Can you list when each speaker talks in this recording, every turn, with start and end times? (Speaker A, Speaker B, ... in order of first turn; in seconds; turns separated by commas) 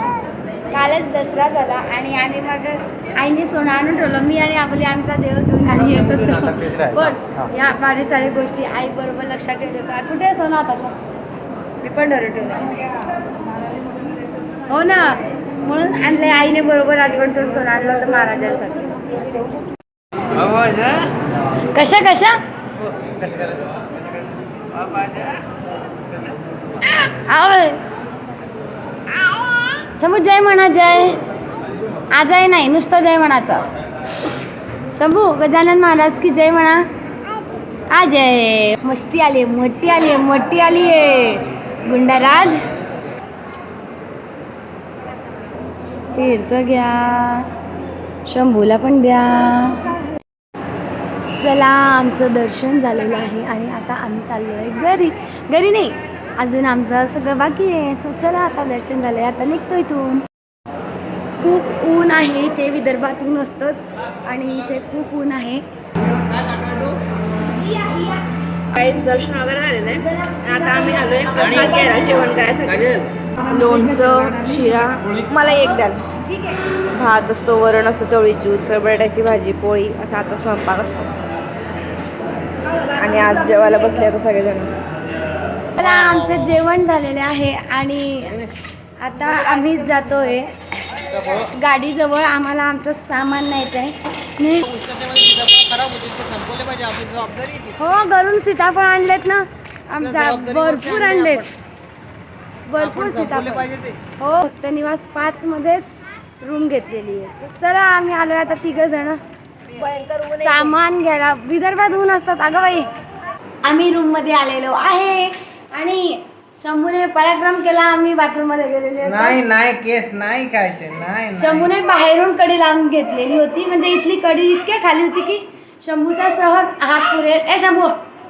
Speaker A: 0.7-11.0, Speaker B: 6.0-7.5, Speaker A: 11.8-12.8, Speaker A: 14.7-18.9, Speaker B: 20.3-21.1, Speaker A: 21.7-22.4, Speaker B: 22.9-23.6, Speaker B: 24.7-25.3, Speaker A: 27.0-27.8, Speaker A: 30.0-31.2, Speaker A: 32.1-33.7, Speaker A: 34.9-36.9, Speaker A: 37.9-42.6, Speaker A: 46.1-47.5, Speaker A: 48.3-50.0, Speaker A: 51.3-60.3, Speaker A: 61.4-65.6, Speaker A: 67.5-68.2, Speaker C: 68.8-76.0, Speaker A: 70.0-72.3, Speaker A: 76.2-76.6, Speaker C: 76.9-81.1, Speaker C: 82.7-84.7, Speaker A: 85.8-88.4, Speaker A: 89.0-90.5, Speaker B: 91.1-91.5, Speaker A: 91.4-94.7, Speaker B: 94.7-97.7, Speaker A: 97.8-101.5, Speaker B: 100.0-101.4, Speaker A: 102.7-109.2, Speaker B: 102.8-104.0, Speaker A: 110.3-112.9, Speaker A: 113.6-119.5, Speaker B: 119.0-121.7, Speaker A: 121.3-128.0